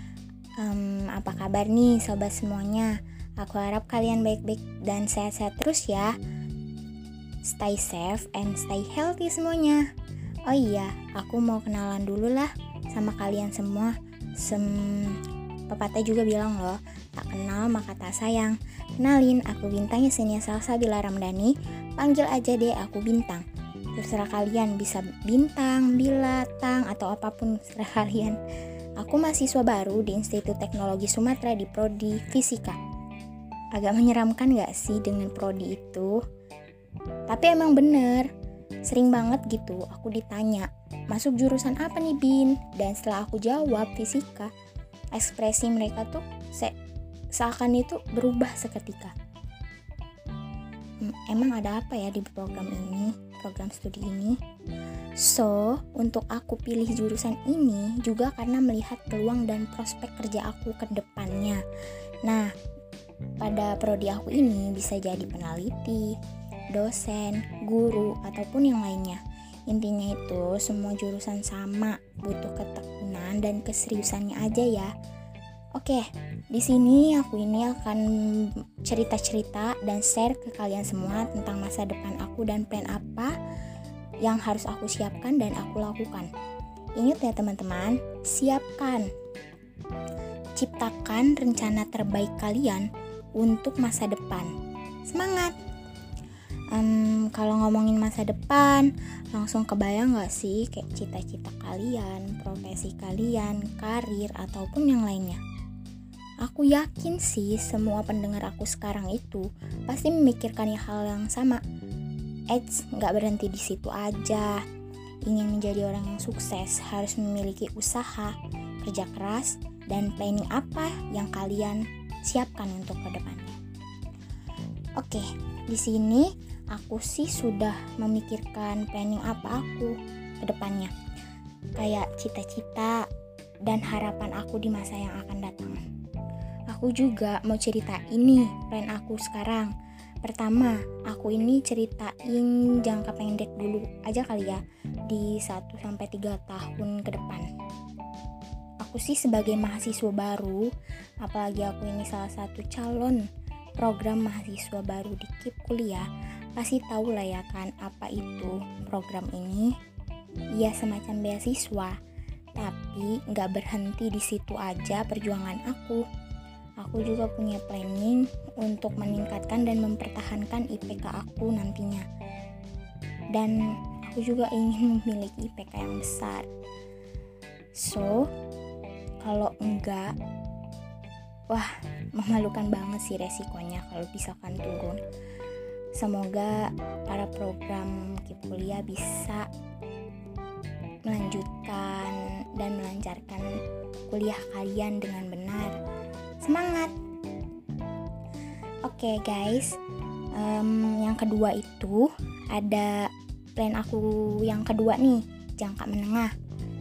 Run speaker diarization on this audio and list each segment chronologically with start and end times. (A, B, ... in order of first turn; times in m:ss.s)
0:00.6-0:06.1 A
0:07.5-0:09.9 A
0:10.5-0:23.4 A
0:24.0-0:28.4 A
0:29.0-0:32.8 A
0:33.8-0:36.2 A
0:37.3-0:38.3 A
0:38.9-0:44.5 A
0:45.2-0:46.7 A
0:47.4-0:49.1 A
0:51.0-0:54.4 A
0:55.2-1:01.6 A
1:02.2-1:02.5 A
1:03.4-1:06.1 A
1:06.7-1:14.9 A
1:15.8-1:23.3 A
1:24.2-1:26.3 A
1:27.0-1:29.1 A
1:30.6-1:34.5 A
1:35.1-1:35.5 A
1:36.7-1:45.4 A
1:46.4-1:51.6 A
1:52.5-1:54.6 A
1:55.3-2:03.6 A
2:05.0-2:10.9 A
2:11.8-2:13.0 A
2:13.7-2:15.8 A
2:16.7-2:19.7 A
2:20.2-2:27.5 A
2:28.8-2:30.7 A
2:31.2-2:33.2 A
2:33.8-2:39.7 A
2:40.6-2:42.0 A
2:42.6-2:46.0 A
2:46.8-2:52.0 A
2:53.3-2:56.5 A
2:57.8-2:58.3 A
2:59.2-3:00.1 A
3:01.5-3:05.0 A
3:06.0-3:09.4 A
3:11.1-3:13.5 A
3:14.1-3:15.8 A
3:16.4-3:16.9 A
3:18.9-3:19.8 A
3:20.3-3:26.3 A